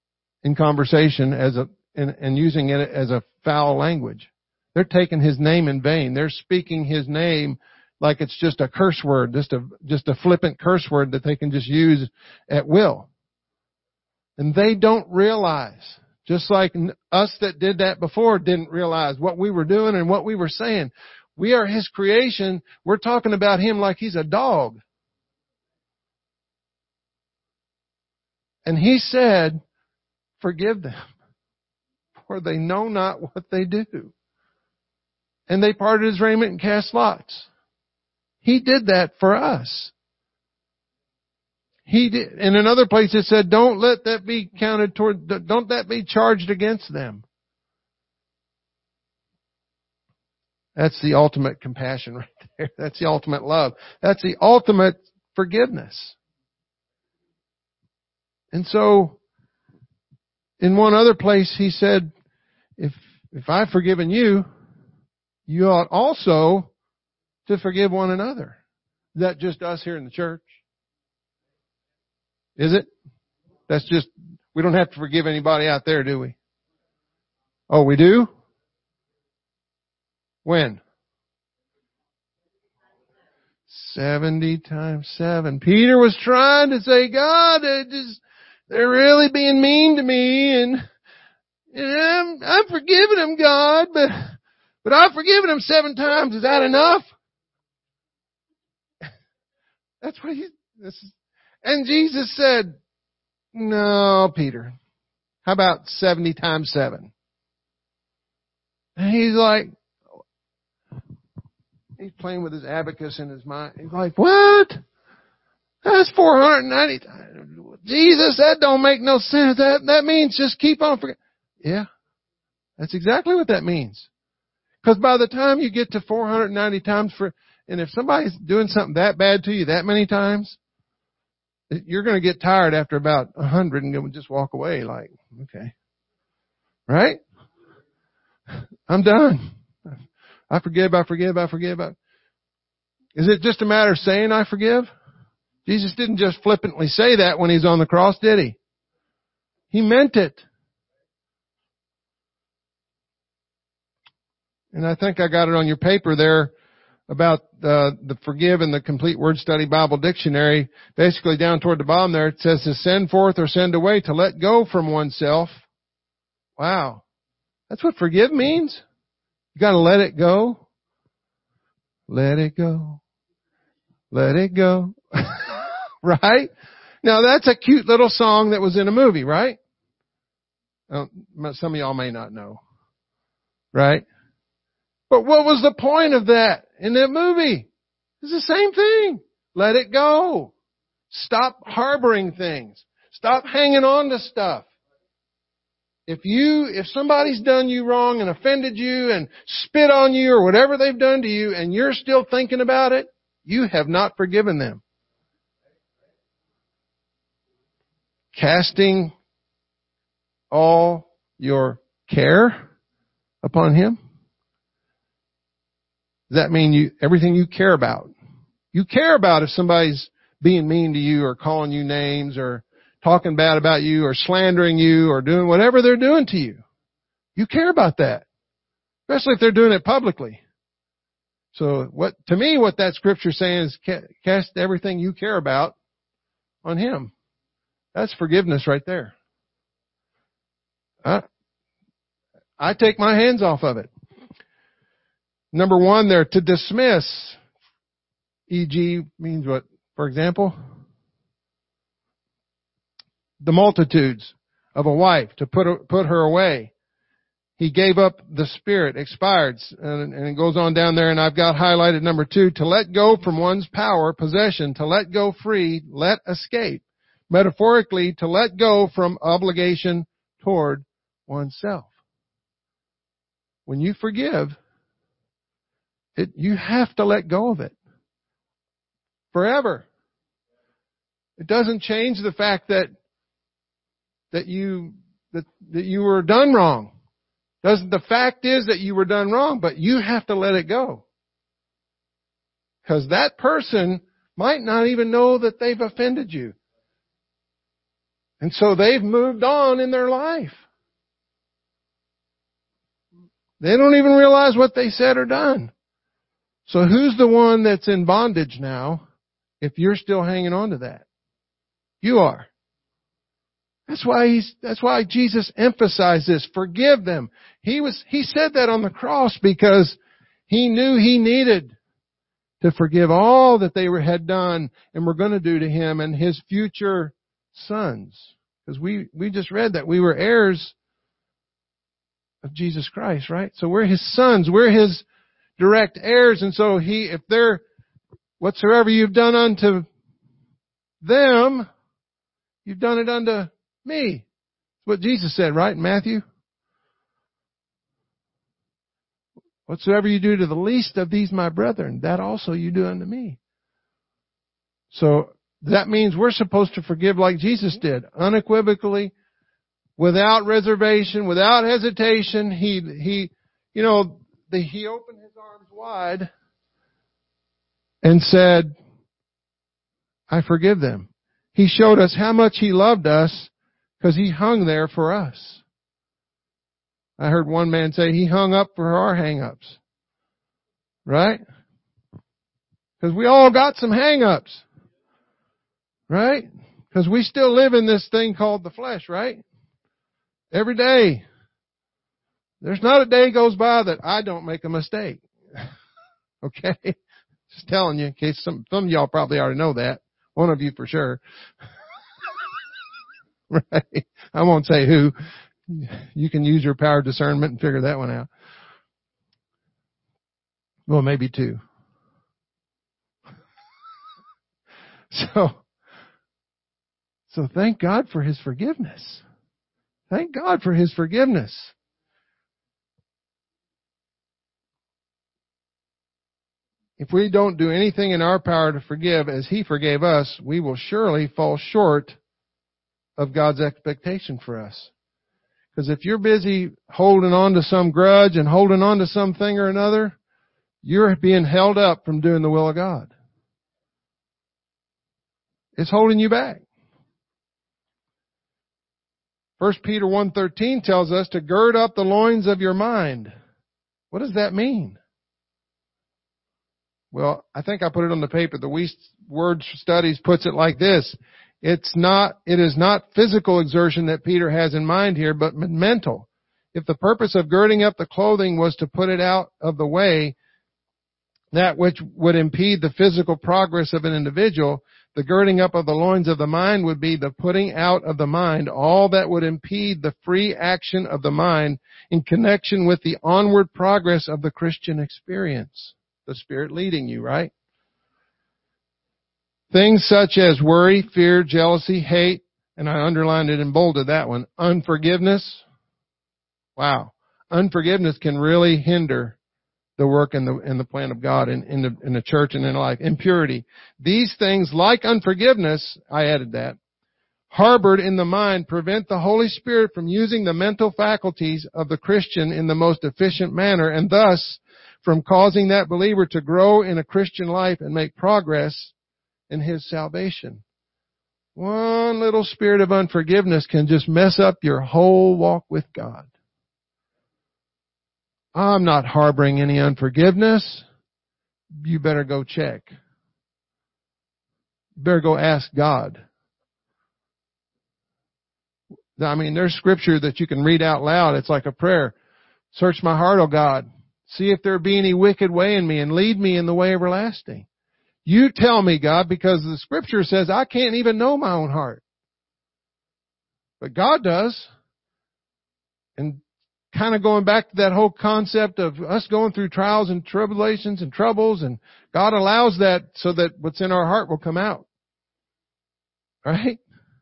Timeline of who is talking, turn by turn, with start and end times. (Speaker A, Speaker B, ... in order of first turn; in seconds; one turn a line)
Speaker A: 0.4-13.1
Speaker A: 14.4-24.8
Speaker A: 28.6-29.6
Speaker A: 30.4-31.1
Speaker A: 32.2-34.1
Speaker A: 35.5-37.5
Speaker A: 38.4-39.9
Speaker A: 41.9-47.2
Speaker A: 50.8-56.2
Speaker A: 58.5-59.2
Speaker A: 60.6-62.1
Speaker A: 62.8-64.5
Speaker A: 65.5-66.7
Speaker A: 67.5-68.6
Speaker A: 69.2-70.6
Speaker A: 72.6-72.9
Speaker A: 73.7-76.4
Speaker A: 77.7-78.3
Speaker A: 80.5-80.8
Speaker A: 83.7-90.8
Speaker A: 91.7-97.1
Speaker A: 100.0-102.8
Speaker A: 103.5-104.7
Speaker A: 105.5-107.1
Speaker A: 109.0-109.7
Speaker A: 112.0-114.8
Speaker A: 115.8-121.9
Speaker A: 122.8-124.1
Speaker A: 124.8-130.6
Speaker A: 131.7-135.7
Speaker A: 136.9-137.2
Speaker A: 138.9-139.5
Speaker A: 140.5-142.0
Speaker A: 143.2-144.9
Speaker A: 145.7-148.6
Speaker A: 149.7-150.4
Speaker A: 154.7-156.5
Speaker A: 157.1-165.6
Speaker A: 166.6-167.0
Speaker A: 167.7-168.8
Speaker A: 169.6-170.6
Speaker A: 172.1-173.0
Speaker A: 174.1-176.5
Speaker A: 177.0-179.6
Speaker A: 180.9-182.6
Speaker A: 183.7-184.1
Speaker A: 185.1-187.7
Speaker A: 188.2-190.5
Speaker A: 191.1-194.7
Speaker A: 196.1-204.8
Speaker A: 208.3-209.1
Speaker A: 210.5-212.6
Speaker A: 213.4-214.0
Speaker A: 216.3-218.1
Speaker A: 218.7-226.6
Speaker A: 227.4-228.3
Speaker A: 229.1-230.4
Speaker A: 231.5-235.8
Speaker A: 236.6-237.1
Speaker A: 237.9-239.1
Speaker A: 242.6-243.9
Speaker A: 245.5-247.4
Speaker A: 248.5-250.5
Speaker A: 253.4-256.7
Speaker A: 257.6-271.9
Speaker A: 273.7-274.6
Speaker A: 276.2-277.8
Speaker A: 279.3-279.9
Speaker A: 281.4-282.9
Speaker A: 284.3-286.9
Speaker A: 287.6-291.1
Speaker A: 292.9-296.6
Speaker A: 298.4-300.6
Speaker A: 303.6-305.7
Speaker A: 306.7-309.0
Speaker A: 309.6-311.1
Speaker A: 312.0-312.5
Speaker A: 313.9-320.0
Speaker A: 320.5-321.8
Speaker A: 322.6-330.7
Speaker A: 332.4-335.0
Speaker A: 335.6-337.6
Speaker A: 338.4-339.9
Speaker A: 341.0-341.7
Speaker A: 342.6-344.3
Speaker A: 344.8-346.2
Speaker A: 349.7-353.4
Speaker A: 354.9-359.1
Speaker A: 360.0-366.3
Speaker A: 368.0-368.8
Speaker A: 370.3-375.6
Speaker A: 377.2-379.8
Speaker A: 381.1-381.4
Speaker A: 383.0-384.6
Speaker A: 386.1-389.4
Speaker A: 390.5-391.2
Speaker A: 392.6-395.6
Speaker A: 396.4-397.0
Speaker A: 397.5-401.2
Speaker A: 403.5-405.1
Speaker A: 405.7-408.3
Speaker A: 410.9-411.6
Speaker A: 415.1-415.6
Speaker A: 417.3-419.2
Speaker A: 420.1-421.7
Speaker A: 427.0-432.2
Speaker A: 433.2-434.9
Speaker A: 435.8-440.2
Speaker A: 440.8-443.1
Speaker A: 445.8-446.6
Speaker A: 449.6-453.3
Speaker A: 454.1-455.0
Speaker A: 457.1-470.4
Speaker A: 471.5-487.5
Speaker A: 489.7-495.6
Speaker A: 496.8-499.4
Speaker A: 500.0-506.8
Speaker A: 507.5-518.9
Speaker A: 519.5-520.6
Speaker A: 521.6-526.3
Speaker A: 528.5-530.9
Speaker A: 531.8-532.9
Speaker A: 535.0-536.2
Speaker A: 539.2-542.1
Speaker A: 542.7-547.7
Speaker A: 548.2-552.0
Speaker A: 553.8-554.7
Speaker A: 556.9-564.9
Speaker A: 566.5-566.8